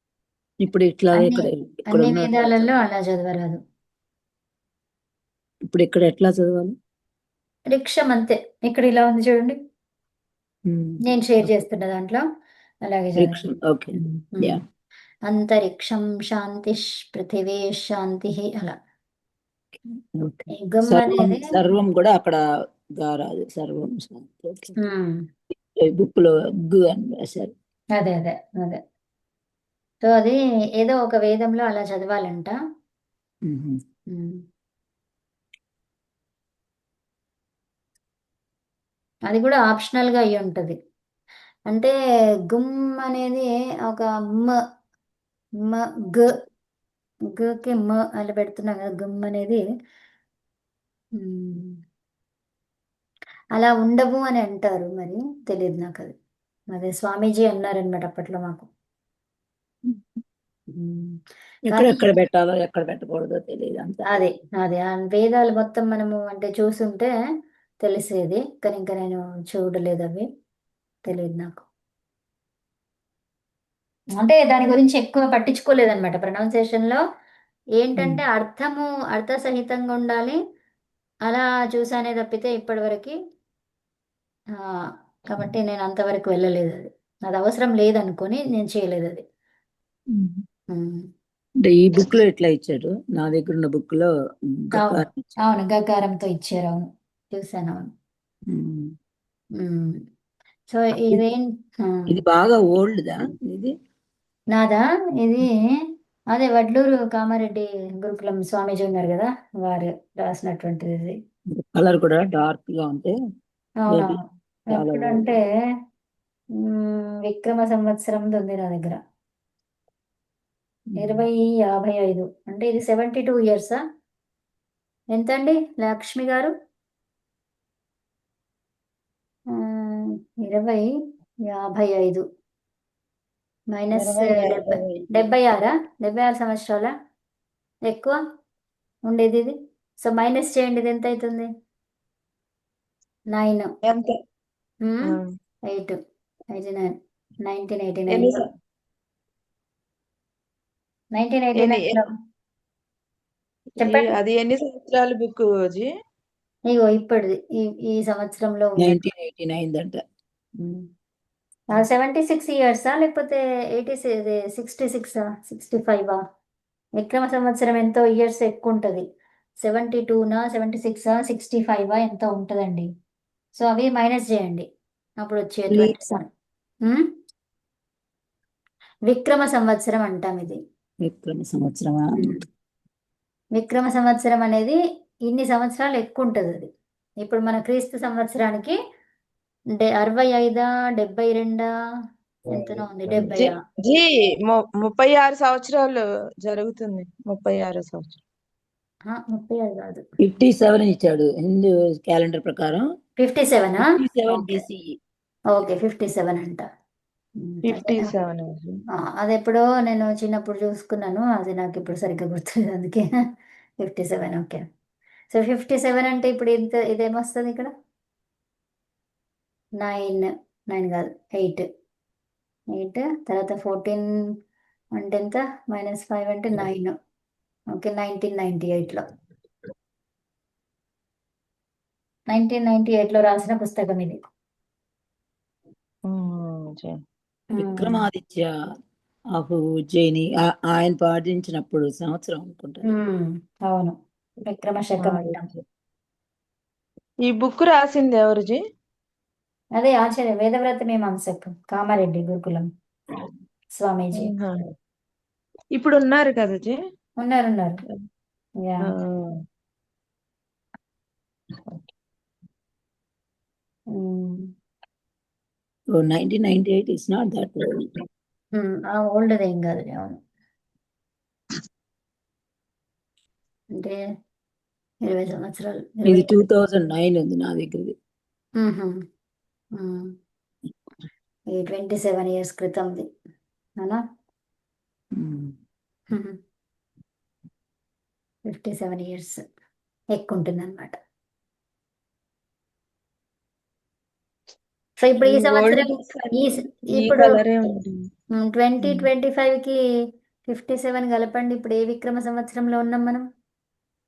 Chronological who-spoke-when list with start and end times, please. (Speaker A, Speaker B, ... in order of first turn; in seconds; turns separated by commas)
Speaker A: 0.6-2.7, Speaker B: 1.1-3.6, Speaker A: 5.7-6.8, Speaker B: 7.7-9.6, Speaker A: 10.7-11.6, Speaker B: 11.1-12.2, Speaker B: 12.8-13.4, Speaker A: 13.2-14.6, Speaker B: 14.0-14.6, Speaker B: 15.3-18.8, Speaker A: 19.9-22.4, Speaker B: 20.6-21.5, Speaker A: 23.0-24.8, Speaker B: 24.8-25.2, Speaker A: 25.8-27.5, Speaker B: 28.0-28.8, Speaker B: 30.0-32.5, Speaker A: 33.5-33.8, Speaker B: 34.1-34.4, Speaker B: 39.3-40.8, Speaker B: 41.7-41.9, Speaker B: 42.5-44.6, Speaker B: 45.6-46.3, Speaker B: 47.4-49.6, Speaker B: 51.2-51.8, Speaker B: 53.5-56.1, Speaker B: 56.7-58.7, Speaker A: 59.9-60.2, Speaker B: 60.7-62.0, Speaker A: 61.7-64.0, Speaker B: 64.1-67.1, Speaker B: 67.8-70.3, Speaker B: 71.0-71.6, Speaker B: 74.2-77.0, Speaker B: 77.8-80.4, Speaker B: 81.3-83.1, Speaker B: 85.3-89.2, Speaker A: 90.1-90.4, Speaker B: 90.7-91.1, Speaker A: 91.6-95.2, Speaker B: 94.8-97.9, Speaker A: 98.5-98.9, Speaker B: 99.6-100.0, Speaker B: 100.7-102.2, Speaker A: 102.1-103.7, Speaker B: 104.5-105.8, Speaker B: 106.3-111.2, Speaker A: 111.5-113.1, Speaker B: 113.8-115.4, Speaker A: 113.9-114.2, Speaker A: 114.7-115.3, Speaker B: 116.5-119.0, Speaker A: 120.9-121.2, Speaker B: 121.0-123.8, Speaker B: 125.1-126.5, Speaker B: 129.5-130.9, Speaker B: 131.5-132.2, Speaker B: 133.7-136.9, Speaker C: 134.0-135.2, Speaker B: 137.9-138.2, Speaker B: 139.1-141.5, Speaker B: 143.3-143.7, Speaker C: 143.8-144.1, Speaker B: 144.8-146.0, Speaker B: 146.5-148.4, Speaker C: 148.1-148.4, Speaker B: 151.1-152.1, Speaker C: 151.6-152.0, Speaker B: 153.8-154.1, Speaker C: 153.8-155.9, Speaker B: 156.7-159.0, Speaker A: 158.8-160.0, Speaker B: 160.6-160.8, Speaker B: 161.7-166.2, Speaker B: 167.0-169.1, Speaker B: 169.6-172.9, Speaker B: 173.6-174.7, Speaker B: 175.2-176.2, Speaker B: 179.1-180.6, Speaker A: 181.0-182.4, Speaker B: 182.2-182.4, Speaker B: 183.6-186.7, Speaker B: 187.2-188.8, Speaker B: 189.8-191.7, Speaker B: 192.5-193.5, Speaker C: 193.2-198.2, Speaker B: 199.1-200.0, Speaker A: 200.2-202.8, Speaker B: 203.2-204.6, Speaker A: 203.8-204.9, Speaker B: 205.5-206.6, Speaker B: 207.4-208.1, Speaker C: 207.7-208.8, Speaker B: 209.0-213.1, Speaker B: 213.8-214.6, Speaker B: 215.3-217.7, Speaker B: 219.8-221.7, Speaker B: 222.7-224.1, Speaker B: 225.0-226.9, Speaker B: 227.7-229.0, Speaker B: 232.3-234.2, Speaker C: 236.1-237.0, Speaker B: 237.5-238.0, Speaker A: 237.6-238.5, Speaker A: 239.4-242.9, Speaker B: 242.8-245.5, Speaker C: 245.0-245.6, Speaker C: 247.3-248.6, Speaker B: 249.8-252.7, Speaker B: 253.8-254.3, Speaker C: 254.1-254.7, Speaker C: 255.8-256.8, Speaker B: 257.2-257.8, Speaker B: 258.6-258.9, Speaker C: 258.9-259.4, Speaker B: 263.9-264.5, Speaker A: 265.9-267.9, Speaker B: 268.6-270.2, Speaker B: 275.0-276.3, Speaker A: 276.1-277.9, Speaker B: 278.6-279.0, Speaker B: 279.8-280.1, Speaker B: 281.5-283.1, Speaker A: 285.1-285.5, Speaker B: 286.1-286.4, Speaker B: 288.5-289.4, Speaker B: 290.1-290.9, Speaker B: 295.0-297.3, Speaker C: 295.2-298.0, Speaker B: 298.4-299.8, Speaker C: 298.8-299.1, Speaker B: 300.5-303.2